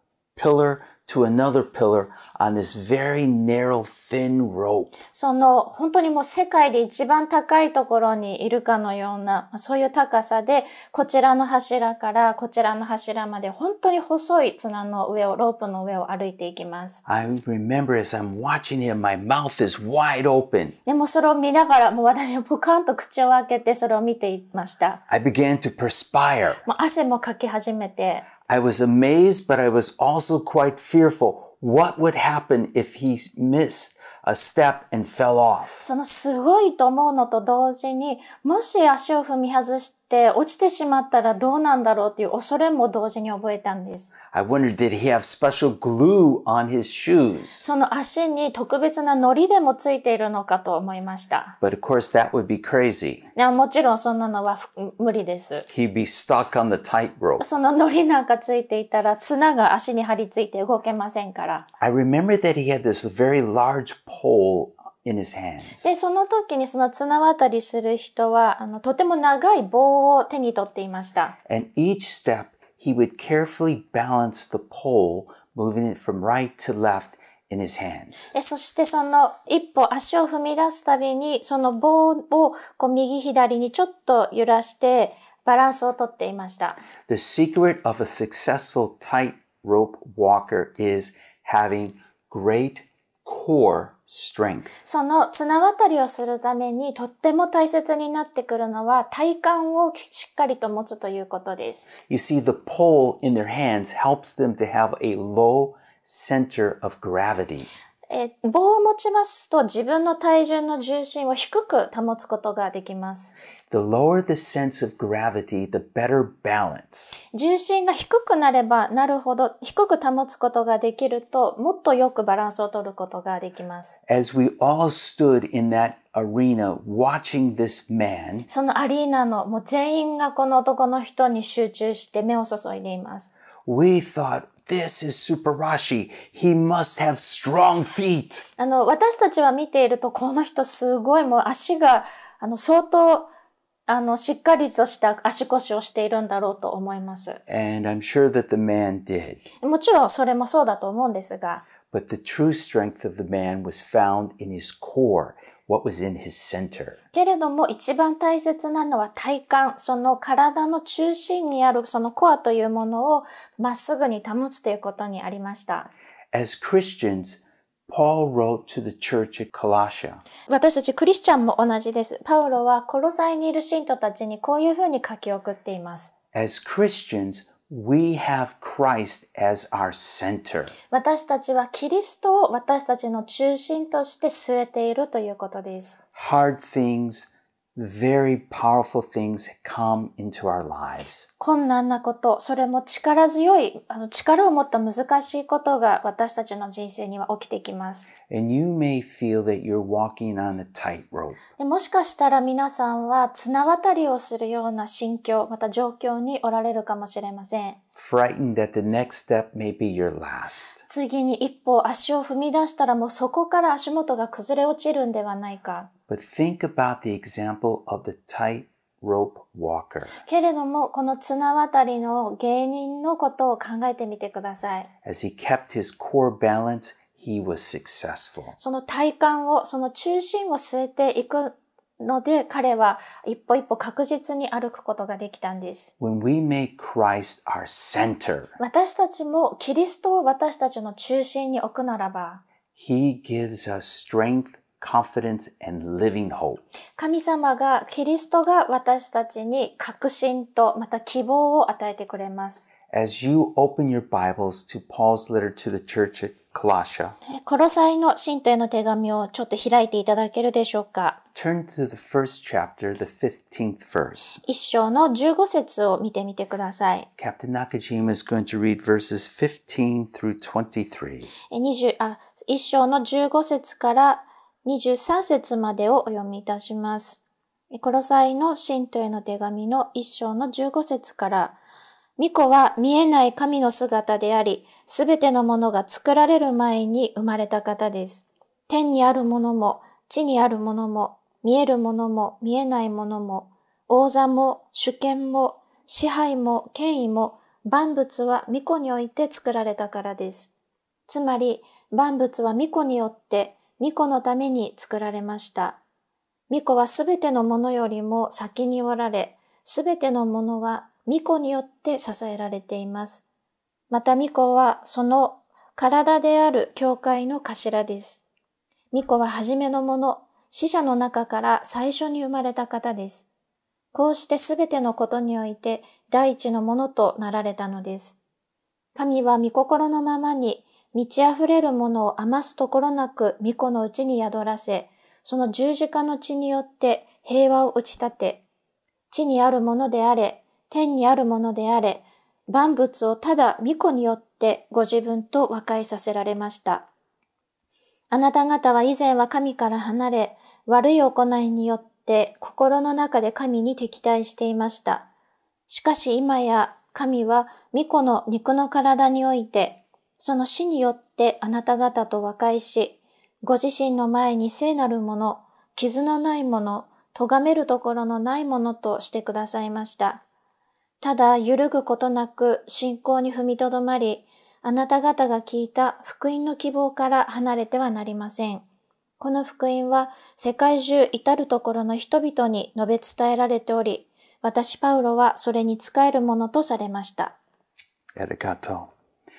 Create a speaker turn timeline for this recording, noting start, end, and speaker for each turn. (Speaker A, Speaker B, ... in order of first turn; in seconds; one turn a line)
Speaker A: 0.4-4.9
Speaker B: 5.1-17.0
Speaker A: 17.1-20.8
Speaker B: 20.9-25.0
Speaker A: 25.1-26.6
Speaker B: 26.6-28.3
Speaker A: 28.5-35.9
Speaker B: 35.8-44.1
Speaker A: 44.3-47.7
Speaker B: 47.6-51.5
Speaker A: 51.6-53.3
Speaker B: 53.4-55.7
Speaker A: 55.7-57.5
Speaker B: 57.4-61.7
Speaker A: 61.8-65.9
Speaker B: 65.8-71.4
Speaker A: 71.5-78.3
Speaker B: 78.3-86.8
Speaker A: 87.1-94.7
Speaker B: 94.8-101.9
Speaker A: 102.1-107.7
Speaker B: 108.1-113.3
Speaker A: 113.7-117.2
Speaker B: 117.3-124.0
Speaker A: 124.1-128.5
Speaker B: 128.5-133.3
Speaker A: 133.7-138.4
Speaker B: 138.6-143.3
Speaker B: 143.9-147.4
Speaker A: 147.5-149.5
Speaker B: 149.6-151.7
Speaker A: 151.9-157.0
Speaker B: 157.1-165.9
Speaker A: 166.3-170.2
Speaker B: 170.5-176.1
Speaker A: 176.3-180.7
Speaker B: 180.9-186.0
Speaker A: 186.2-191.3
Speaker B: 191.4-198.1
Speaker A: 198.3-201.4
Speaker B: 201.6-207.8
Speaker A: 208.0-210.8
Speaker B: 210.9-215.9
Speaker A: 216.1-220.2
Speaker B: 220.3-224.9
Speaker A: 225.1-228.6
Speaker B: 228.6-235.9
Speaker A: 236.0-238.5
Speaker B: 238.6-242.4
Speaker A: 242.8-246.6
Speaker B: 247.0-252.7
Speaker A: 252.9-257.2
Speaker B: 257.3-261.2
Speaker A: 261.4-264.4
Speaker B: 264.5-267.1
Speaker A: 267.2-271.3
Speaker B: 271.5-277.2
Speaker B: 277.7-281.6
Speaker B: 282.2-300.5
Speaker B: 301.1-305.8
Speaker B: 306.5-313.2
Speaker B: 313.9-318.2
Speaker B: 318.9-323.3
Speaker B: 323.9-328.2
Speaker B: 328.9-338.4
Speaker B: 339.1-346.9
Speaker B: 348.1-355.1
Speaker B: 355.7-370.2
Speaker B: 371.0-378.7
Speaker B: 379.2-387.4
Speaker A: 388.2-388.9